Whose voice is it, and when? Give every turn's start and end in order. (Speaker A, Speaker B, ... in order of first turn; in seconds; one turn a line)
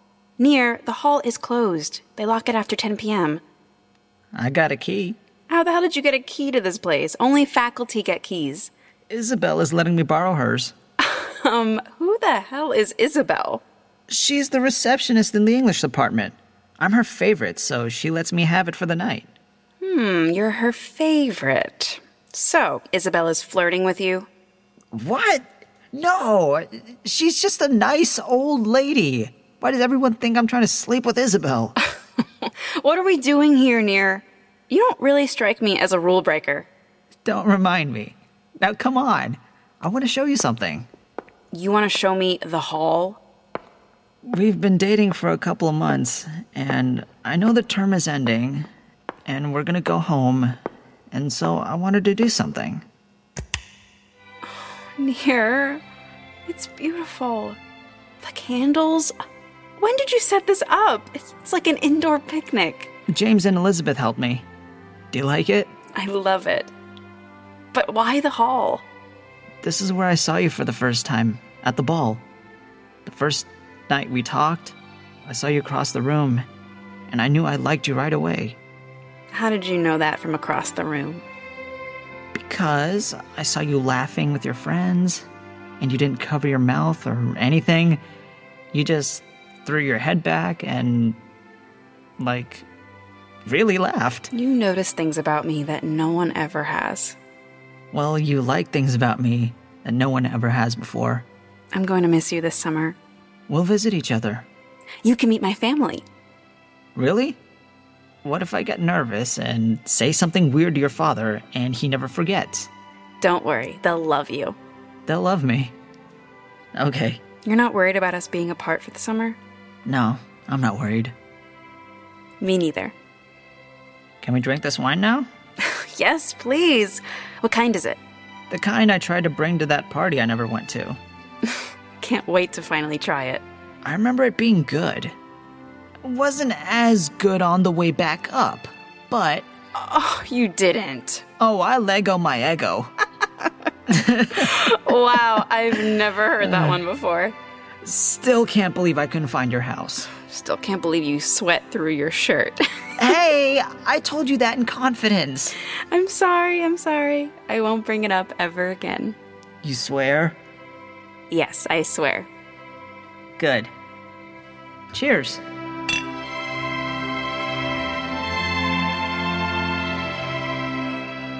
Speaker A: 0.4-3.4
Speaker B: 4.3-5.2
Speaker A: 5.5-8.7
Speaker B: 9.1-10.7
Speaker A: 11.0-13.6
Speaker B: 14.1-19.3
Speaker A: 19.8-24.3
Speaker B: 24.9-31.8
Speaker A: 32.4-36.7
Speaker B: 37.2-40.9
Speaker A: 41.5-43.2
Speaker B: 44.2-48.7
Speaker B: 49.3-50.6
Speaker B: 51.1-52.8
Speaker A: 54.5-55.8
Speaker A: 56.5-57.6
Speaker A: 58.2-59.1
Speaker A: 59.8-62.9
Speaker B: 63.1-64.4
Speaker B: 65.1-65.7
Speaker A: 66.0-66.7
Speaker A: 67.7-68.8
Speaker B: 69.6-72.2
Speaker B: 73.0-74.7
Speaker B: 75.2-76.5
Speaker B: 77.1-78.6
Speaker A: 79.3-81.2
Speaker B: 82.3-85.2
Speaker B: 85.8-88.0
Speaker B: 88.7-91.2
Speaker B: 92.2-92.7
Speaker B: 93.5-94.3
Speaker A: 94.3-97.2
Speaker B: 97.9-101.2
Speaker A: 101.7-103.0
Speaker B: 103.5-104.5
Speaker A: 105.0-106.0
Speaker B: 107.0-107.4
Speaker B: 108.2-112.7
Speaker A: 113.2-114.5
Speaker B: 115.1-115.7
Speaker B: 116.8-117.2
Speaker A: 117.4-119.4
Speaker B: 119.8-121.1
Speaker A: 122.4-122.9
Speaker B: 124.2-125.3
Speaker A: 125.6-128.0
Speaker B: 128.5-131.0
Speaker A: 132.0-133.4
Speaker B: 133.8-135.1
Speaker B: 136.0-139.5
Speaker A: 139.7-141.2
Speaker B: 141.4-142.9
Speaker B: 143.9-144.5
Speaker A: 144.3-147.3
Speaker B: 146.4-146.8
Speaker B: 147.8-150.1
Speaker A: 150.1-153.1
Speaker B: 153.0-155.5
Speaker A: 155.9-159.2
Speaker B: 159.6-160.4
Speaker A: 161.3-162.3
Speaker B: 163.4-163.7
Speaker B: 164.9-165.4